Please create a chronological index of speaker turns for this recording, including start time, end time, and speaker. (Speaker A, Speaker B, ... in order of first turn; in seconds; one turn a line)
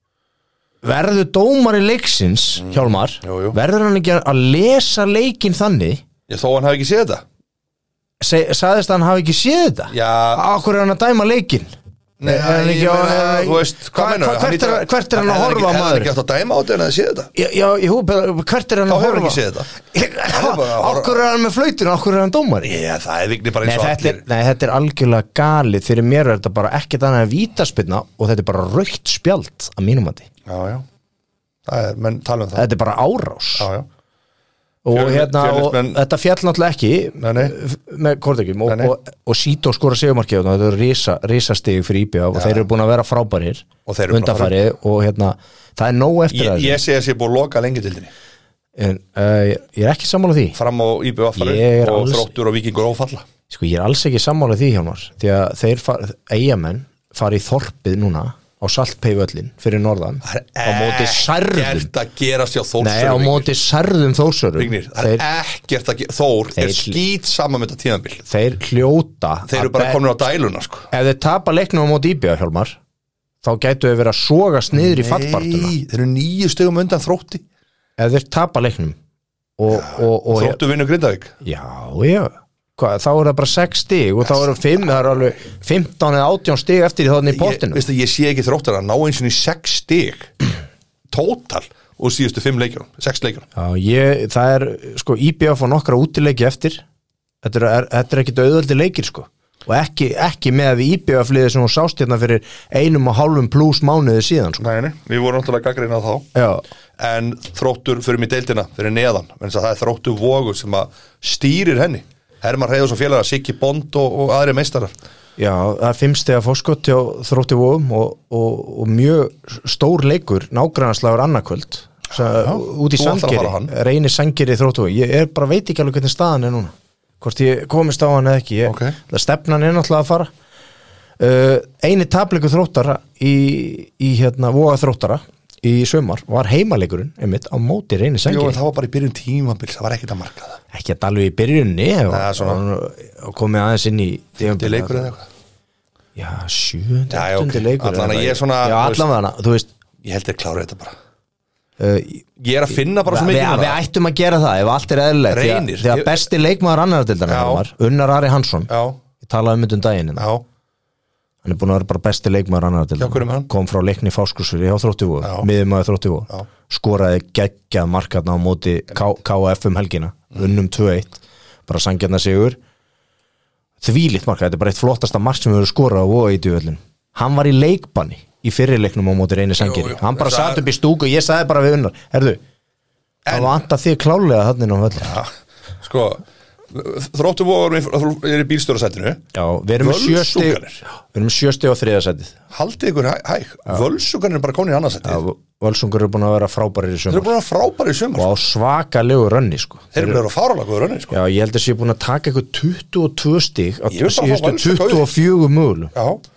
Speaker A: 0.8-6.0
Speaker B: 2.6-3.6
Speaker B: 6.3-7.2
Speaker A: 8.2-11.7
Speaker B: 9.9-10.4
Speaker B: 12.2-17.3
Speaker A: 12.2-16.1
Speaker A: 17.4-22.7
Speaker B: 18.9-19.7
Speaker B: 20.3-21.2
Speaker B: 22.6-24.2
Speaker A: 23.6-30.3
Speaker B: 30.5-30.9
Speaker B: 31.7-32.7
Speaker A: 32.6-33.7
Speaker B: 33.6-33.9
Speaker A: 34.8-46.8
Speaker B: 34.9-36.0
Speaker B: 37.2-37.6
Speaker B: 38.7-38.9
Speaker B: 42.3-42.7
Speaker B: 43.9-44.6
Speaker B: 46.3-48.1
Speaker A: 48.8-50.6
Speaker B: 50.5-53.3
Speaker A: 51.4-52.3
Speaker A: 53.5-61.9
Speaker B: 60.2-63.5
Speaker A: 62.8-65.2
Speaker B: 64.6-68.2
Speaker A: 66.6-67.0
Speaker A: 68.3-70.0
Speaker B: 69.5-70.9
Speaker A: 70.9-72.8
Speaker A: 73.4-75.7
Speaker B: 74.7-77.4
Speaker A: 78.0-79.0
Speaker A: 79.6-80.6
Speaker B: 79.7-81.3
Speaker A: 81.4-87.8
Speaker B: 87.3-90.3
Speaker B: 91.1-93.5
Speaker A: 93.6-96.8
Speaker A: 97.4-104.6
Speaker B: 104.6-106.3
Speaker A: 106.3-106.6
Speaker B: 107.0-114.9
Speaker A: 115.4-130.3
Speaker B: 122.1-123.7
Speaker B: 128.7-129.0
Speaker A: 131.2-138.6
Speaker B: 138.2-140.6
Speaker A: 140.7-145.1
Speaker B: 142.1-142.6
Speaker B: 144.4-145.3
Speaker A: 146.2-149.7
Speaker B: 147.1-149.1
Speaker B: 150.0-150.9
Speaker A: 151.8-152.3
Speaker B: 152.4-153.8
Speaker A: 153.1-160.3
Speaker B: 155.3-156.2
Speaker B: 157.3-157.7
Speaker B: 158.7-159.0
Speaker B: 160.2-160.4
Speaker A: 161.4-172.6
Speaker B: 163.0-163.5
Speaker B: 165.2-165.5
Speaker A: 173.8-182.4
Speaker B: 179.6-180.6
Speaker B: 183.3-183.5
Speaker A: 183.3-185.2
Speaker B: 185.0-189.2
Speaker A: 189.3-192.3
Speaker B: 189.8-190.8
Speaker B: 192.5-195.2
Speaker A: 195.1-197.3
Speaker B: 197.1-198.3
Speaker A: 198.2-200.2
Speaker B: 199.9-201.2
Speaker A: 201.1-205.9
Speaker B: 203.9-205.1
Speaker B: 205.9-206.2